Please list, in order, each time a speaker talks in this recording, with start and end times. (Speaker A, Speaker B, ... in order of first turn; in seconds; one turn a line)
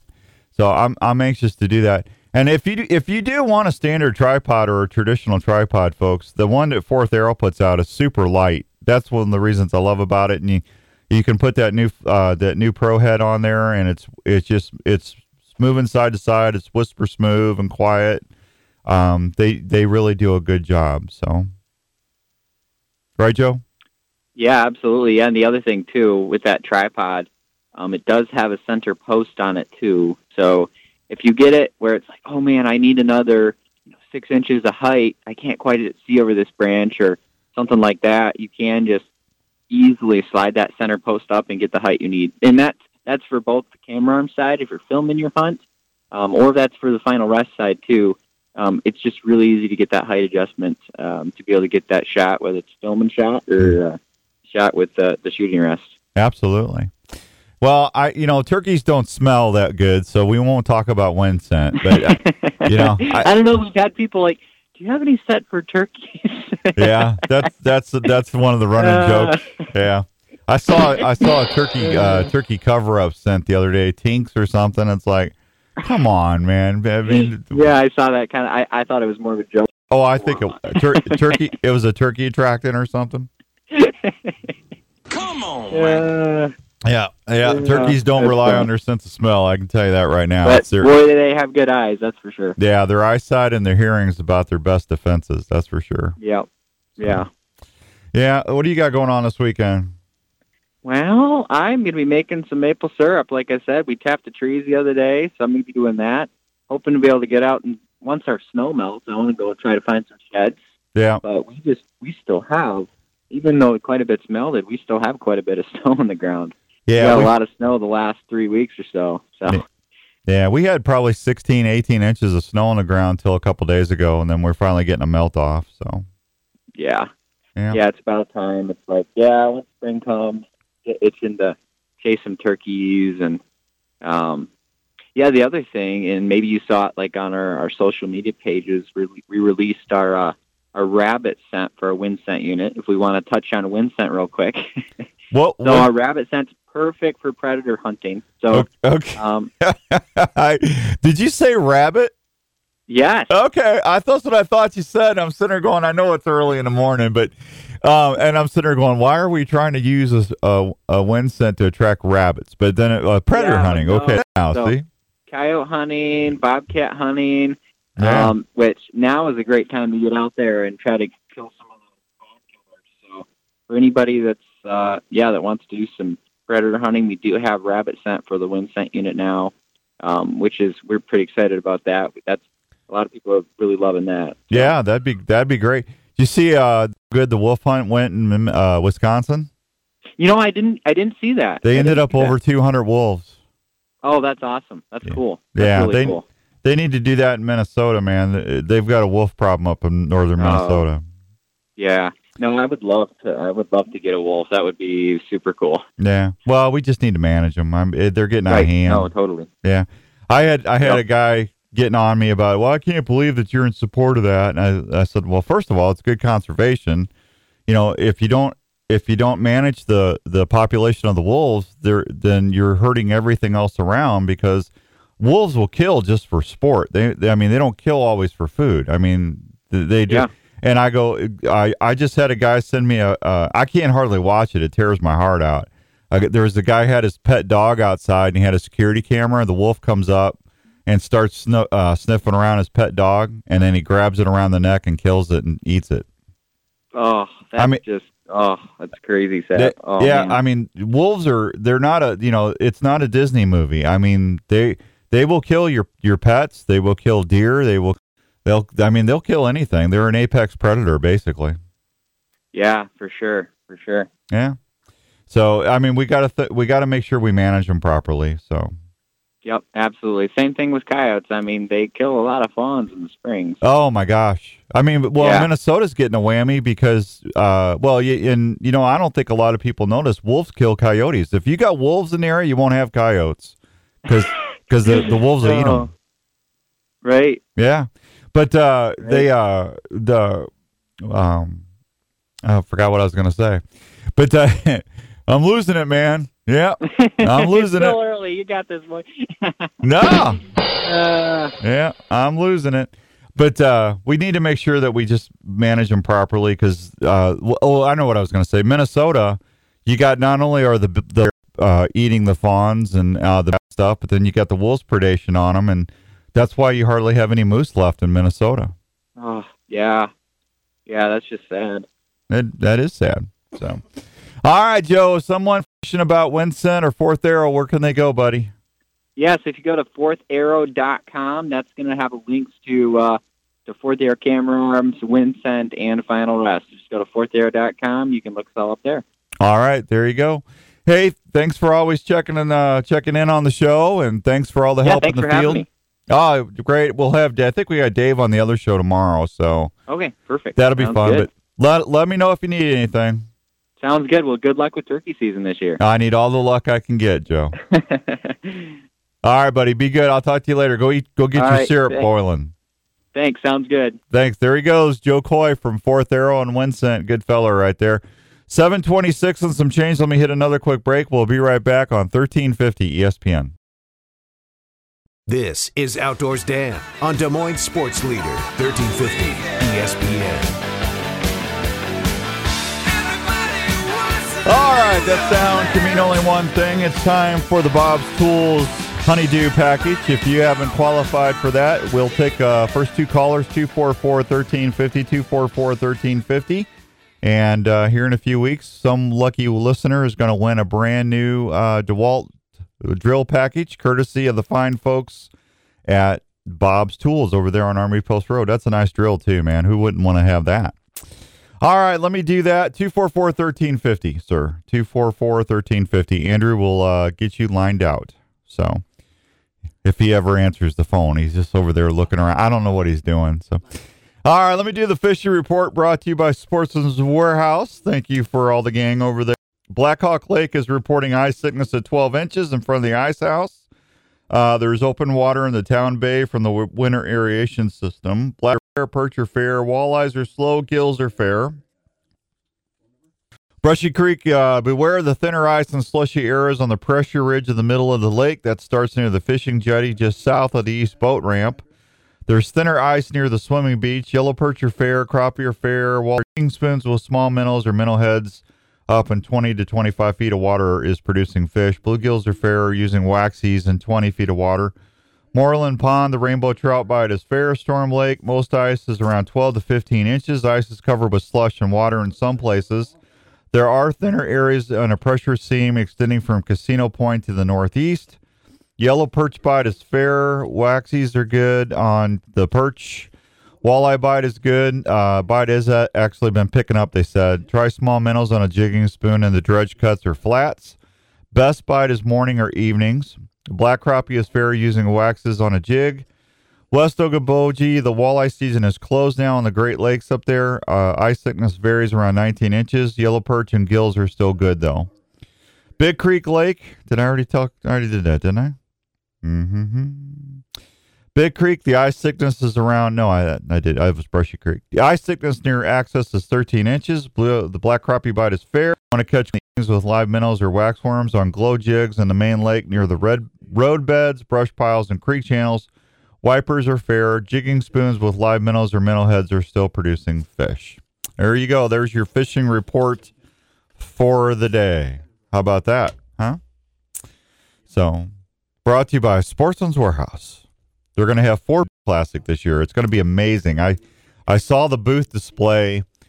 Speaker A: 0.6-18.2
Speaker A: 18.9-21.5
Speaker A: 23.2-23.6
Speaker B: 24.4-39.1
Speaker B: 39.7-55.9
Speaker A: 56.2-56.9
Speaker A: 57.6-63.3
Speaker B: 61.9-67.5
Speaker A: 66.8-77.7
Speaker B: 68.8-69.7
Speaker B: 71.8-72.3
Speaker B: 77.0-81.4
Speaker A: 79.9-83.3
Speaker B: 83.7-84.5
Speaker B: 85.7-86.5
Speaker A: 86.8-90.9
Speaker B: 87.5-88.7
Speaker B: 90.4-92.6
Speaker A: 92.6-96.2
Speaker B: 96.2-96.5
Speaker B: 97.0-97.3
Speaker A: 98.1-99.9
Speaker B: 100.8-110.6
Speaker A: 111.0-111.2
Speaker B: 111.2-119.6
Speaker A: 116.9-117.3
Speaker A: 120.3-126.0
Speaker B: 126.8-127.1
Speaker B: 127.7-133.4
Speaker B: 134.0-134.5
Speaker B: 135.2-144.7
Speaker A: 145.3-145.9
Speaker B: 145.6-149.5
Speaker A: 148.5-152.1
Speaker B: 152.9-153.3
Speaker A: 153.3-164.9
Speaker B: 163.3-164.8
Speaker B: 165.3-171.7
Speaker A: 168.0-168.3
Speaker B: 173.0-184.7
Speaker A: 184.5-189.5
Speaker B: 190.2-192.4
Speaker A: 191.6-193.3
Speaker B: 194.0-196.2
Speaker A: 195.1-201.0
Speaker B: 200.4-200.8
Speaker B: 201.8-205.8
Speaker A: 206.0-209.1
Speaker B: 208.5-209.5
Speaker A: 209.6-217.1
Speaker A: 217.7-246.1
Speaker B: 246.9-250.4
Speaker A: 249.6-261.6
Speaker B: 262.5-264.1
Speaker A: 264.3-264.6
Speaker A: 265.3-268.7
Speaker B: 269.4-273.6
Speaker A: 273.6-285.9
Speaker B: 275.2-275.5
Speaker B: 284.9-285.9
Speaker B: 287.0-287.4
Speaker A: 287.6-290.5
Speaker A: 291.0-291.6
Speaker A: 292.4-293.6
Speaker A: 294.1-298.0
Speaker B: 296.9-299.7
Speaker A: 299.8-300.4
Speaker B: 300.8-301.5
Speaker A: 301.6-318.7
Speaker B: 319.2-320.1
Speaker B: 320.9-321.9
Speaker A: 322.3-323.8
Speaker A: 324.4-328.5
Speaker B: 329.2-339.0
Speaker A: 339.4-349.7
Speaker B: 344.8-345.7
Speaker B: 349.9-351.3
Speaker A: 350.6-353.3
Speaker B: 353.8-355.8
Speaker A: 355.8-357.6
Speaker B: 357.7-358.8
Speaker A: 359.2-362.5
Speaker B: 361.3-362.1
Speaker B: 363.1-364.0
Speaker A: 364.1-373.5
Speaker C: 375.3-380.6
Speaker A: 384.4-396.7
Speaker A: 397.2-405.3
Speaker A: 405.9-410.8
Speaker A: 411.6-418.8
Speaker A: 419.8-433.6
Speaker A: 434.3-441.6
Speaker A: 443.6-451.6
Speaker A: 452.3-464.7
Speaker A: 465.3-472.9
Speaker A: 473.5-478.2
Speaker A: 478.8-483.1
Speaker A: 483.6-490.8
Speaker A: 491.3-496.1
Speaker A: 496.7-504.9
Speaker A: 505.8-508.6
Speaker A: 509.2-510.4
Speaker A: 511.1-525.7
Speaker A: 526.2-533.1
Speaker A: 533.8-536.4
Speaker A: 537.7-538.1
Speaker A: 538.6-540.4
Speaker A: 541.0-545.9